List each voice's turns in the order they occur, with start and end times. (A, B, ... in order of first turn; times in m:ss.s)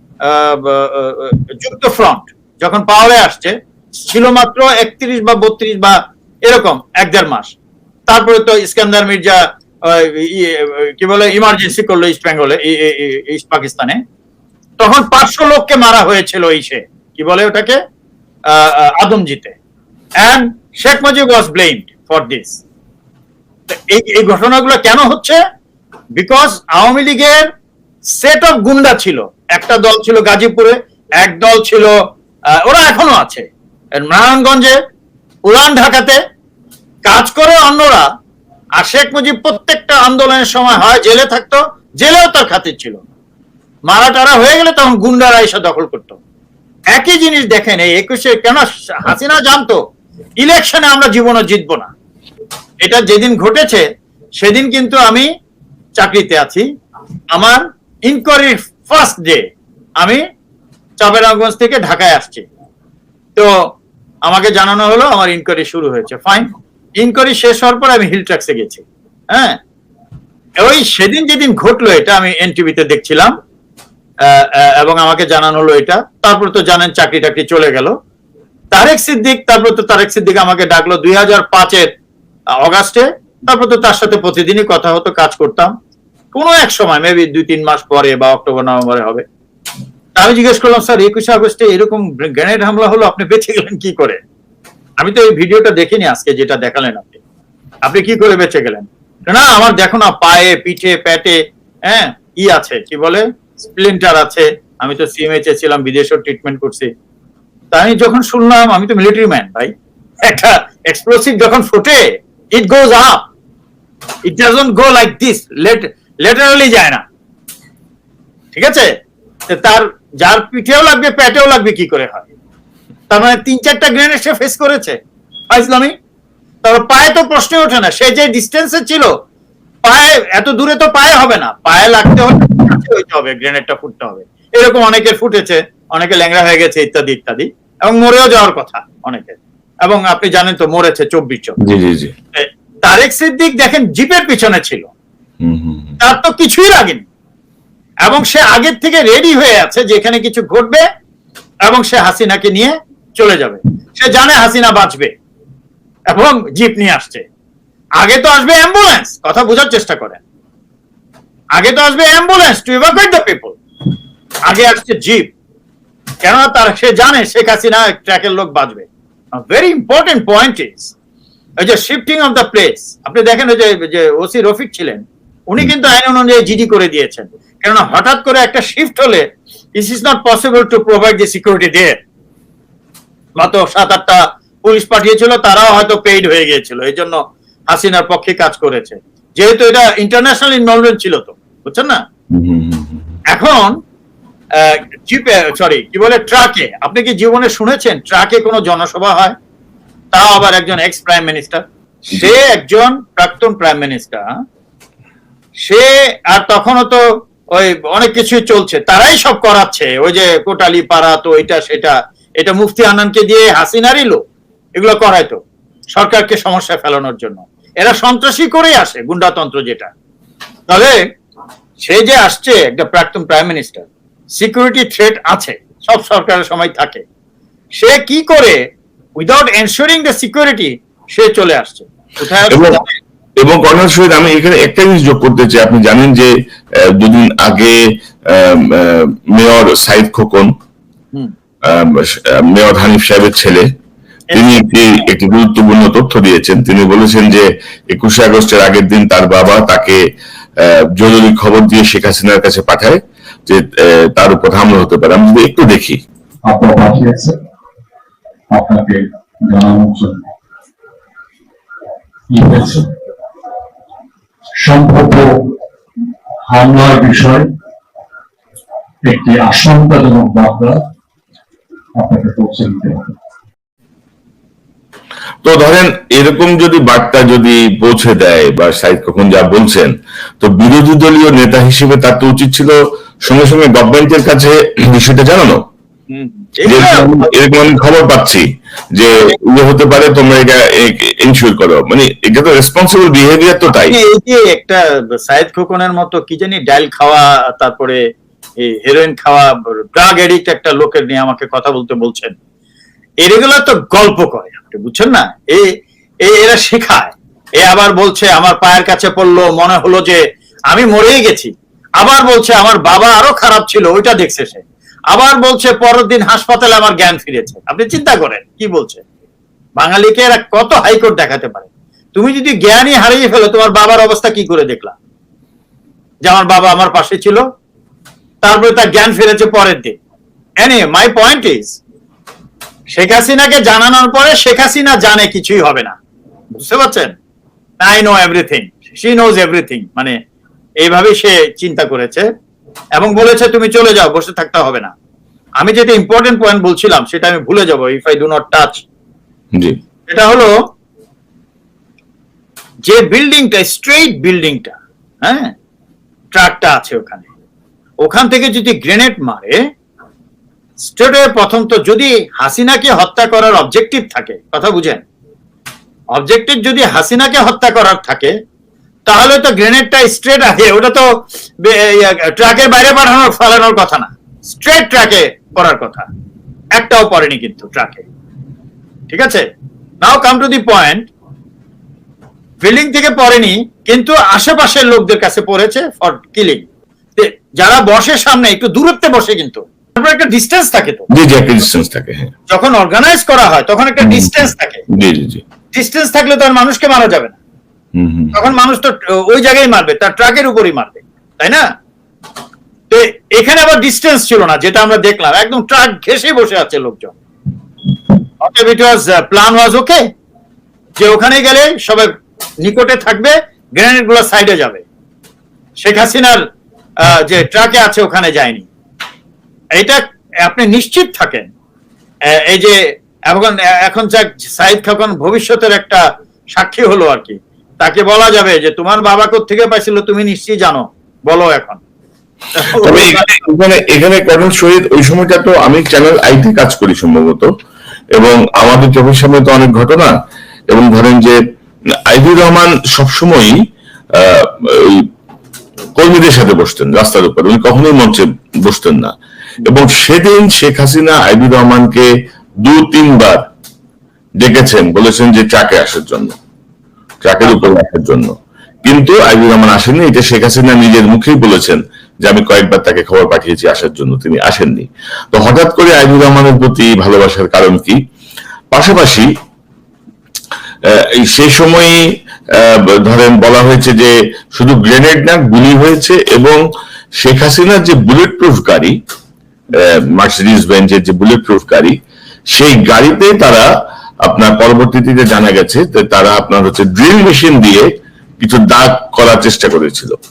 0:00.2-0:07.5 A
0:08.1-0:14.0 A
0:14.8-0:17.8 A
0:18.5-0:19.5 A
0:20.2-0:22.6 A
0:23.7-0:25.4 A
0:26.2-0:27.5 A
0:28.2-0:32.0 A
0:32.6-0:34.8 A
0:35.4-0:36.2 A
0:37.0-0:38.1 A
0:38.8-0:43.0 A
0:43.9-0:46.2 A
0:46.9-0:49.8 A
0:50.4-0:51.9 A
0:52.8-0:53.8 A
0:54.4-0:55.3 A
0:56.0-0:56.7 A
0:57.3-0:59.5 A
1:01.0-1:02.4 A
1:04.2-1:09.6 A
1:10.6-1:13.3 A
1:14.2-1:17.9 A
1:18.7-1:21.9 A
1:22.6-1:25.7 A
1:26.3-1:29.2 A
1:30.2-1:34.2 A
1:35.0-1:37.2 A
1:37.8-1:46.9 A
1:47.7-1:53.3 A
1:54.2-1:57.0 A
1:58.5-1:58.9 A
1:59.5-2:02.3 A
2:03.1-2:05.0 A
2:05.5-2:05.9 A
2:06.6-2:09.2 A
2:09.8-2:21.6 A
2:21.6-2:22.1 B
2:22.3-2:24.9 A
2:25.4-2:26.0 B
2:26.0-2:27.0 A
2:28.0-2:30.8 A
2:31.6-2:35.1 A
2:36.1-2:37.2 A
2:38.0-2:40.2 A
2:41.6-2:43.6 A
2:44.5-2:45.3 A
2:46.2-2:48.9 A
2:49.4-2:50.9 A
2:51.6-3:02.0 A
3:03.4-3:07.2 A
3:07.7-3:12.0 A
3:12.3-3:13.0 B
3:13.3-3:13.8 A
3:14.6-3:19.3 A
3:20.1-3:24.4 A
3:25.6-3:27.0 A
3:27.5-3:34.2 A
3:34.8-3:35.4 A
3:36.0-3:39.9 A
3:40.7-3:41.0 A
3:41.8-3:43.9 A
3:44.4-3:47.0 A
3:47.8-3:48.6 A
3:49.2-3:53.0 A
3:52.5-3:52.8 B
3:53.4-3:56.3 B
3:57.0-3:57.8 B
3:58.3-4:00.5 B
4:01.6-4:03.7 B
4:04.3-4:05.0 A
4:04.3-4:10.0 B
4:10.6-4:16.0 B
4:16.4-4:17.4 C
4:18.5-4:20.3 C
4:22.3-4:22.9 C
4:24.6-4:25.5 C
4:26.5-4:27.5 C
4:29.0-4:30.8 C
4:32.0-4:33.1 C
4:35.4-4:45.6 B
4:46.1-4:47.3 A
4:46.6-4:54.0 B
4:53.7-4:58.0 A
4:58.6-5:02.3 A
5:03.2-5:05.7 A
5:06.2-5:19.0 A
5:19.8-5:25.0 A
5:26.2-5:27.4 A
5:28.4-5:30.0 A
5:30.6-5:31.8 A
5:32.9-5:36.0 A
5:36.5-5:37.1 A
5:37.8-5:40.1 A
5:40.8-5:42.2 A
5:42.9-5:44.9 A
5:45.6-5:48.8 A
5:50.1-5:50.5 A
5:52.9-5:55.5 A
5:56.3-5:57.3 A
5:58.0-5:59.6 A
6:00.9-6:05.0 A
6:06.1-6:08.3 A
6:09.1-6:11.1 A
6:11.6-6:16.1 A
6:16.8-6:18.0 A
6:19.1-6:19.4 A
6:20.0-6:21.1 A
6:22.6-6:31.1 A
6:31.1-6:32.3 B
6:32.5-6:34.8 A
6:34.0-6:35.4 B
6:35.7-6:37.4 A
6:37.9-6:38.4 B
6:38.3-6:41.6 A
6:42.9-6:47.1 A
6:48.4-6:50.0 A
6:51.0-6:54.8 A
6:55.8-6:56.4 A
6:57.0-6:58.7 A
6:59.8-7:01.5 A
7:02.3-7:02.8 A
7:03.3-7:06.0 A
7:06.6-7:11.8 A
7:12.5-7:13.4 A
7:12.8-7:17.5 B
7:18.2-7:20.2 B
7:20.7-7:21.4 B
7:22.0-7:23.6 B
7:24.2-7:25.1 B
7:26.0-7:32.1 B
7:32.6-7:33.4 B
7:34.4-7:36.3 B
7:37.2-7:38.3 B
7:38.8-7:48.0 B
7:48.7-7:49.3 B
7:51.0-7:52.0 B
7:52.6-7:56.6 B
7:57.2-7:58.9 B
7:59.8-8:02.0 B
8:02.5-8:03.7 B
8:04.2-8:07.9 B
8:08.4-8:10.1 B